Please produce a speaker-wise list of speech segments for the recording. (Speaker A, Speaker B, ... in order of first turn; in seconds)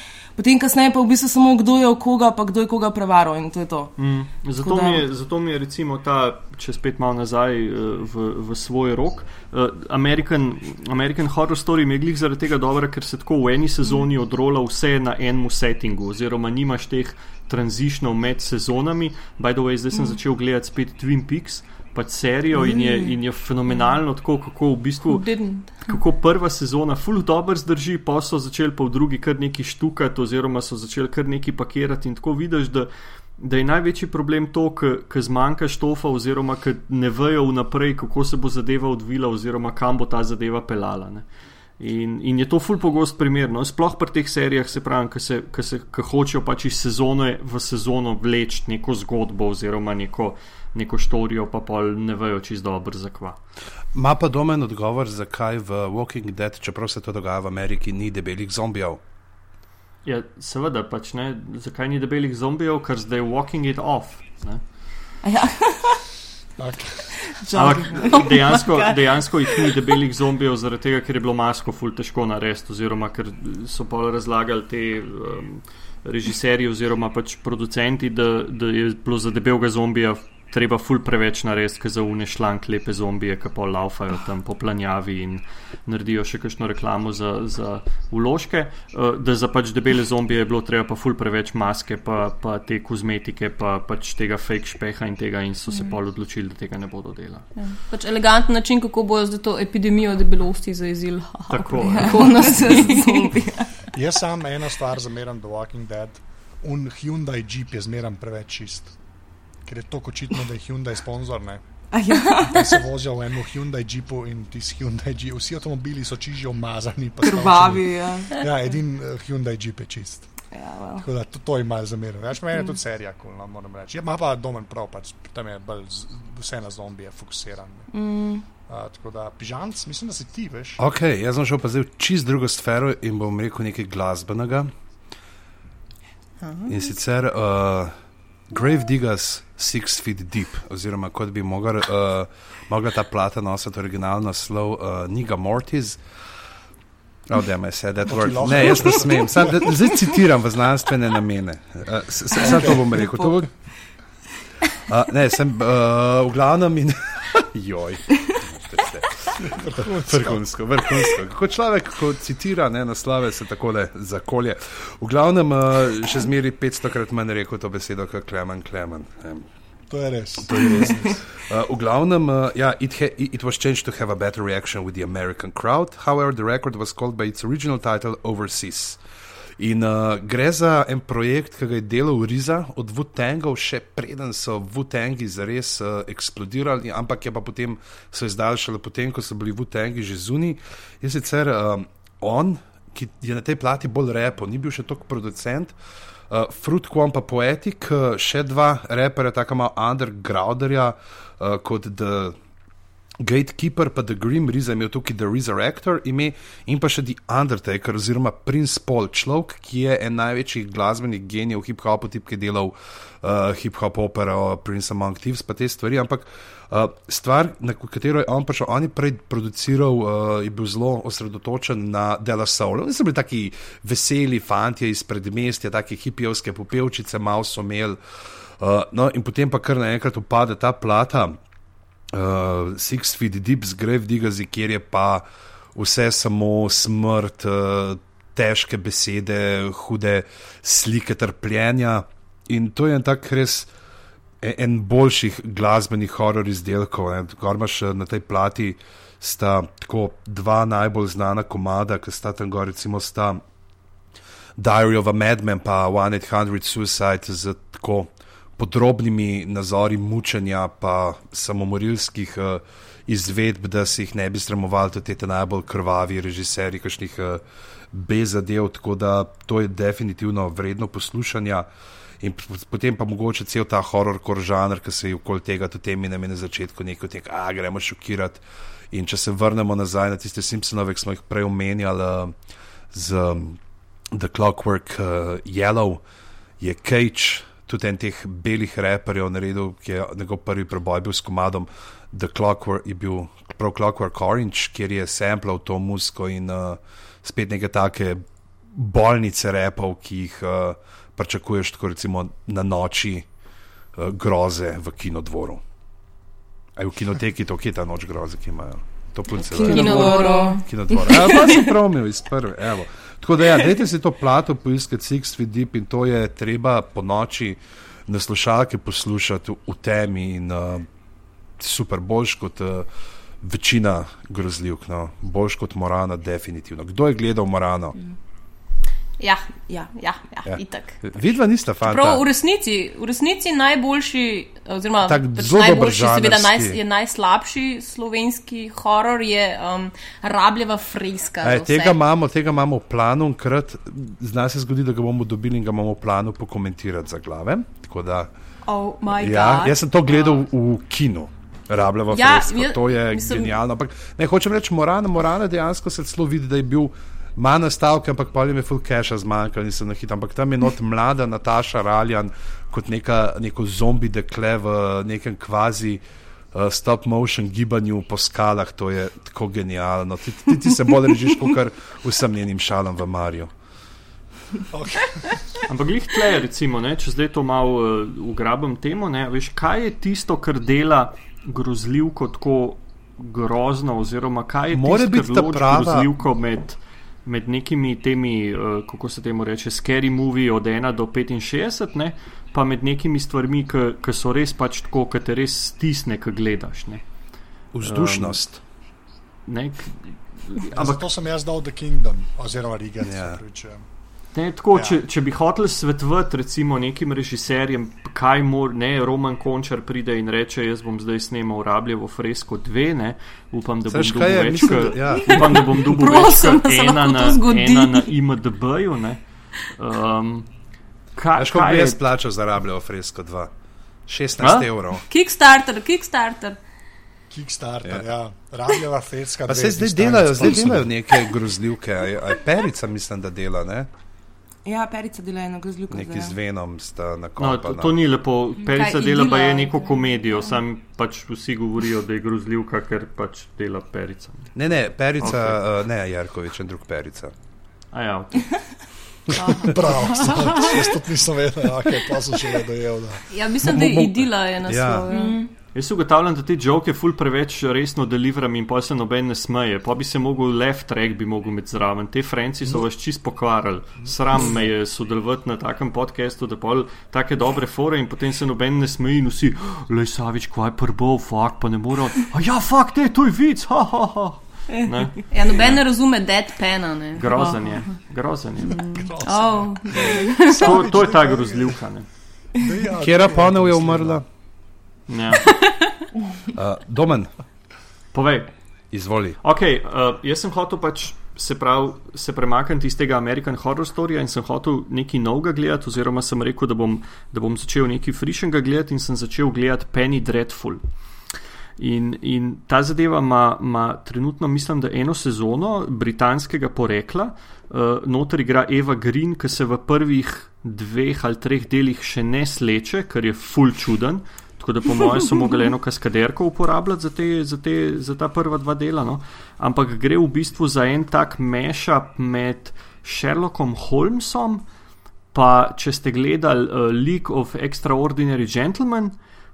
Speaker A: 0.4-3.9, 4.6-5.0, 22.6-23.1, 65.2-66.0, 67.2-69.7, 102.0-103.7, 111.9-112.8, 117.2-118.4, 120.5-121.1, 127.9-128.4, 152.4-153.3, 309.4-311.3, 434.7-436.4, 455.1-455.5
Speaker B: 4.0-41.3, 41.8-53.4, 60.0-64.6, 67.5-97.5, 101.5-102.7, 375.7-397.0, 397.8-398.4, 399.5-401.1, 404.4-420.5, 421.1-422.0, 424.4-424.7, 437.4-444.5, 445.2-445.6, 447.9-448.7, 455.7-475.8, 477.2-479.0, 480.5-482.1, 485.1-485.6, 488.1-488.5, 489.4-500.8, 501.8-524.6, 525.3-529.2
Speaker C: 25.1-25.8, 97.6-103.3, 309.6-310.6, 329.2-331.1, 331.8-342.0, 348.7-349.8, 352.1-353.5, 415.1-418.1, 425.1-426.6, 438.6-440.5, 449.4-450.9, 453.3-455.4, 475.3-477.8, 478.7-480.9, 485.5-486.0
Speaker D: 53.9-59.0, 130.8-134.7, 136.7-137.9, 138.5-146.0, 147.3-153.5, 154.9-169.5, 170.4-179.0, 179.6-195.8, 196.3-202.4, 203.2-228.0, 228.6-231.4, 232.1-243.7, 244.4-253.4, 254.6-271.7, 272.2-282.3, 282.9-283.6, 284.1-286.0, 286.6-303.3, 304.0-305.6, 306.8-320.9, 321.6-322.9, 323.4-328.0, 330.5-332.2, 335.1-336.8, 341.4-348.3, 349.2-366.0, 366.5-373.5, 384.7-386.1, 397.7-398.6, 403.0-403.4, 413.9-415.6, 421.4-423.5, 424.1-425.0, 429.5-433.9, 435.9-438.0, 444.6-447.3, 453.6-455.1, 483.0-484.2, 486.5-487.3, 488.9-489.4
Speaker E: 66.6-67.2, 103.9-108.9, 109.7-111.6, 112.4-120.3, 121.0-127.9, 128.7-130.8, 148.1-149.8, 152.4-152.9, 159.4-160.4, 169.9-171.0, 374.7-375.6, 400.7-403.9, 427.3-430.9, 449.4-453.3, 478.9-481.8, 482.6-484.2